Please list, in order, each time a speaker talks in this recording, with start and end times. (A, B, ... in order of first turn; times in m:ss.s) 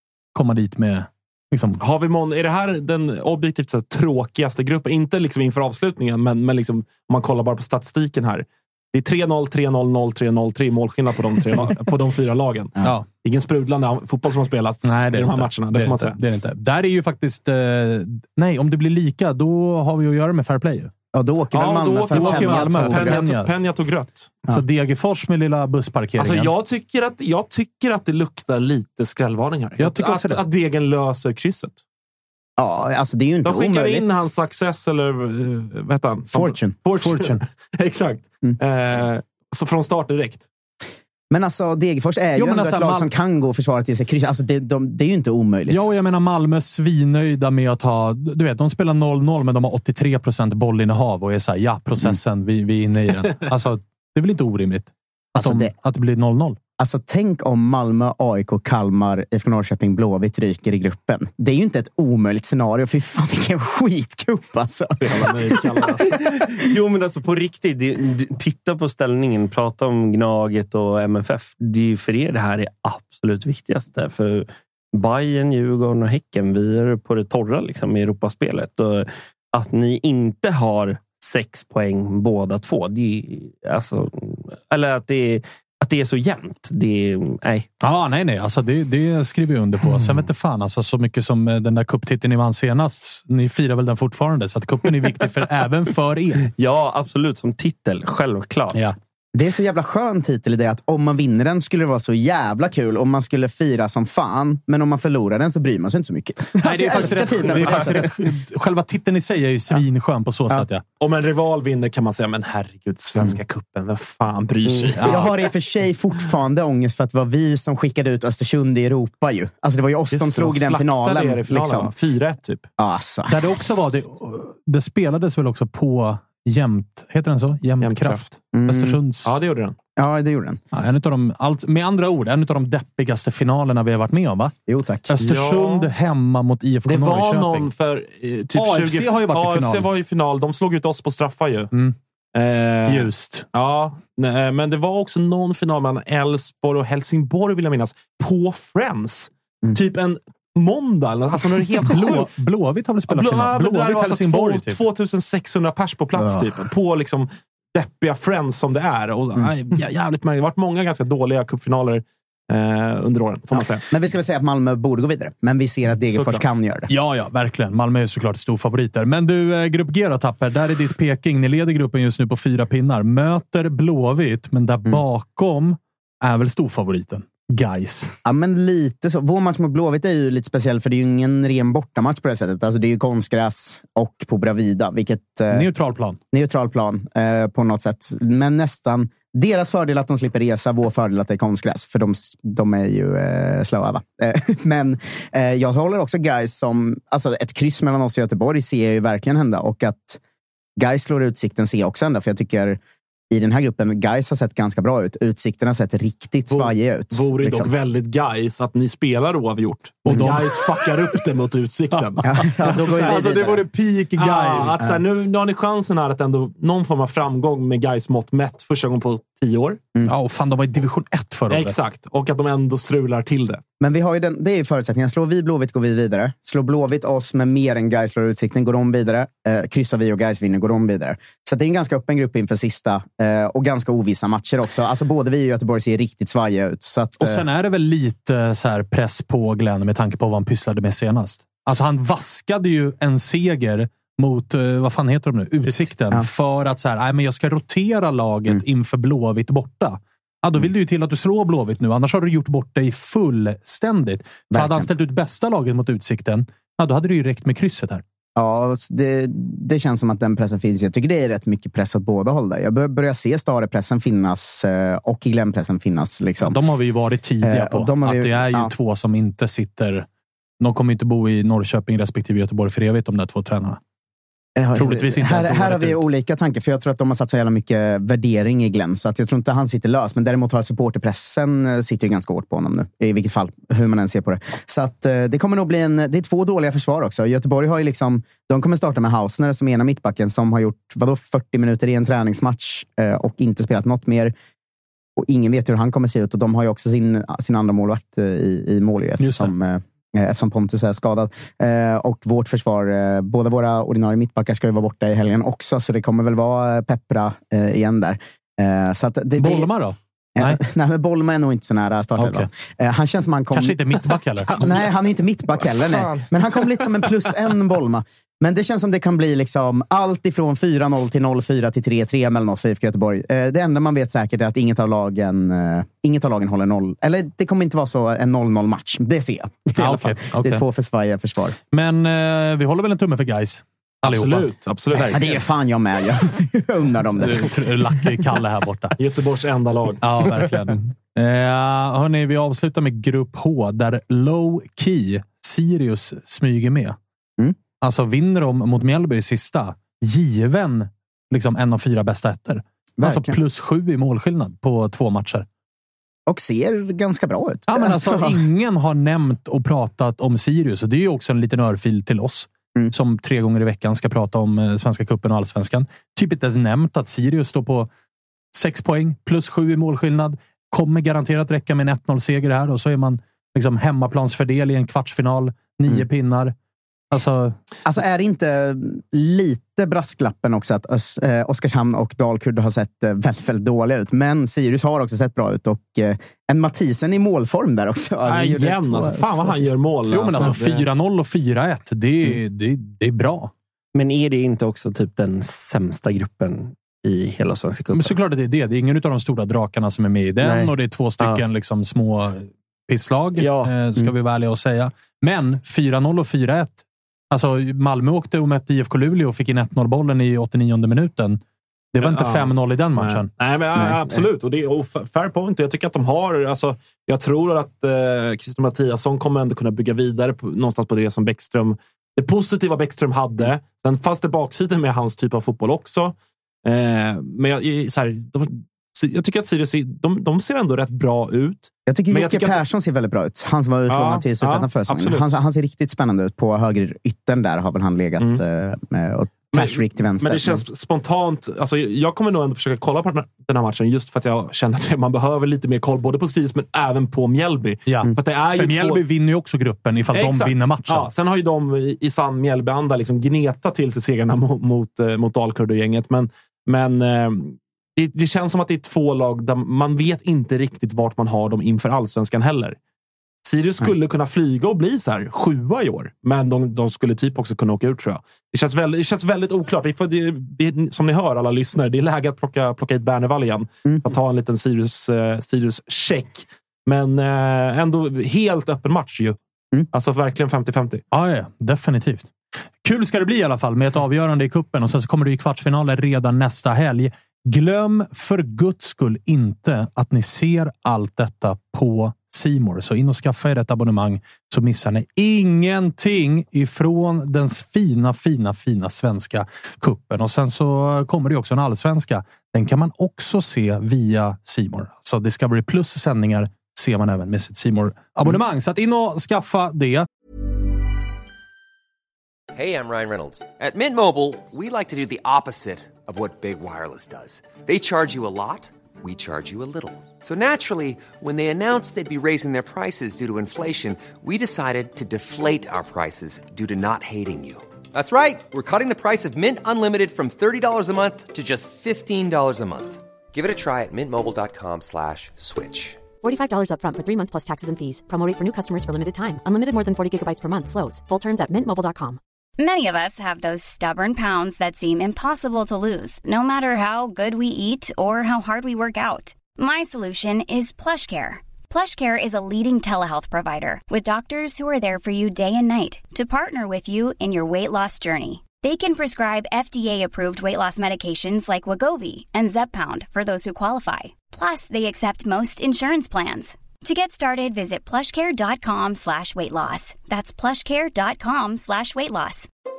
0:00.4-0:01.8 A
0:01.8-0:16.2 B
0:12.8-0:13.1 A
0:14.8-0:20.9 A
0:21.1-0:23.3 C
0:21.5-0:24.3 B
0:21.6-0:23.5 A
0:24.5-0:26.5 A
0:26.2-0:31.8 B
0:29.8-0:30.4 A
0:32.6-0:34.2 C
0:33.4-0:40.5 B
0:36.3-0:36.7 C
0:37.0-0:37.4 A
0:41.3-0:45.8 C
0:42.4-0:43.1 A
0:45.7-0:56.6 A
0:55.4-0:55.7 C
0:56.8-1:05.9 C
1:05.0-1:06.2 B
1:06.6-1:27.7 D
1:27.8-1:36.5 A
1:36.6-1:38.8 D
1:39.3-1:48.0 C
1:46.6-1:50.8 A
1:51.0-1:55.3 B
1:55.0-1:55.3 A
1:55.1-2:01.9 C
2:00.1-2:02.7 B
2:02.8-2:03.4 C
2:03.3-2:09.3 A
2:07.8-2:08.3 B
2:08.5-2:09.0 C
2:09.2-2:09.8 B
2:10.0-2:10.6 C
2:10.7-2:14.6 A
2:14.7-2:15.1 C
2:15.1-2:17.7 A
2:15.2-2:15.9 B
2:16.9-2:21.7 B
2:18.5-2:19.9 A
2:22.4-2:32.3 B
2:22.9-2:23.5 A
2:31.8-2:34.8 A
2:33.1-2:43.8 B
2:43.6-2:46.9 C
2:46.1-2:46.4 B
2:46.9-2:58.1 A
2:58.2-3:05.7 C
3:05.5-3:06.2 A
3:06.3-3:20.2 C
3:20.8-3:22.8 C
3:23.3-3:27.7 C
3:26.5-3:33.3 B
3:30.0-3:30.4 C
3:30.1-3:30.6 A
3:31.9-3:34.8 A
3:32.2-3:33.6 C
3:34.2-3:39.8 B
3:40.0-3:41.8 A
3:41.5-3:43.6 B
3:43.8-3:57.4 C
3:57.2-4:18.0 A
4:05.7-4:06.3 C
4:14.5-4:14.9 C
4:18.4-4:26.6 C
4:26.4-4:30.1 A
4:27.4-4:28.7 C
4:30.6-4:33.8 A
4:34.6-4:54.3 C
4:34.8-4:36.0 A
4:55.2-5:09.7 C
4:59.2-4:59.5 A
5:09.4-5:10.6 A
5:10.4-5:31.6 C
5:12.2-5:12.5 A
5:13.5-5:14.6 A
5:29.8-5:30.6 A
5:31.7-5:35.3 A
5:34.0-5:35.3 B
5:35.1-5:37.5 C
5:37.2-5:39.0 A
5:39.0-5:40.0 B
5:40.0-5:47.0 A
5:47.8-5:55.5 A
5:53.0-5:53.4 C
5:56.3-5:58.4 C
5:57.7-6:07.9 A
6:08.5-6:16.5 A
6:17.1-6:17.6 A
6:17.9-6:29.8 C
6:28.3-6:30.8 B
6:30.1-6:33.5 A
6:34.0-6:38.2 D
6:37.9-6:51.4 A
6:40.4-6:41.4 D
6:43.4-6:43.7 D
6:51.9-6:53.3 A
6:52.0-7:12.6 B
6:53.8-6:54.2 C
7:11.9-7:20.6 C
7:13.9-7:15.3 B
7:19.5-7:29.0 B
7:27.9-7:31.1 A
7:30.1-7:42.8 B
7:43.4-7:59.4 B
7:59.9-8:01.0 B
8:01.1-8:02.3 A
8:02.8-8:30.1 A
8:32.6-8:56.0 E
8:56.2-9:02.2 F
9:02.6-9:32.5 G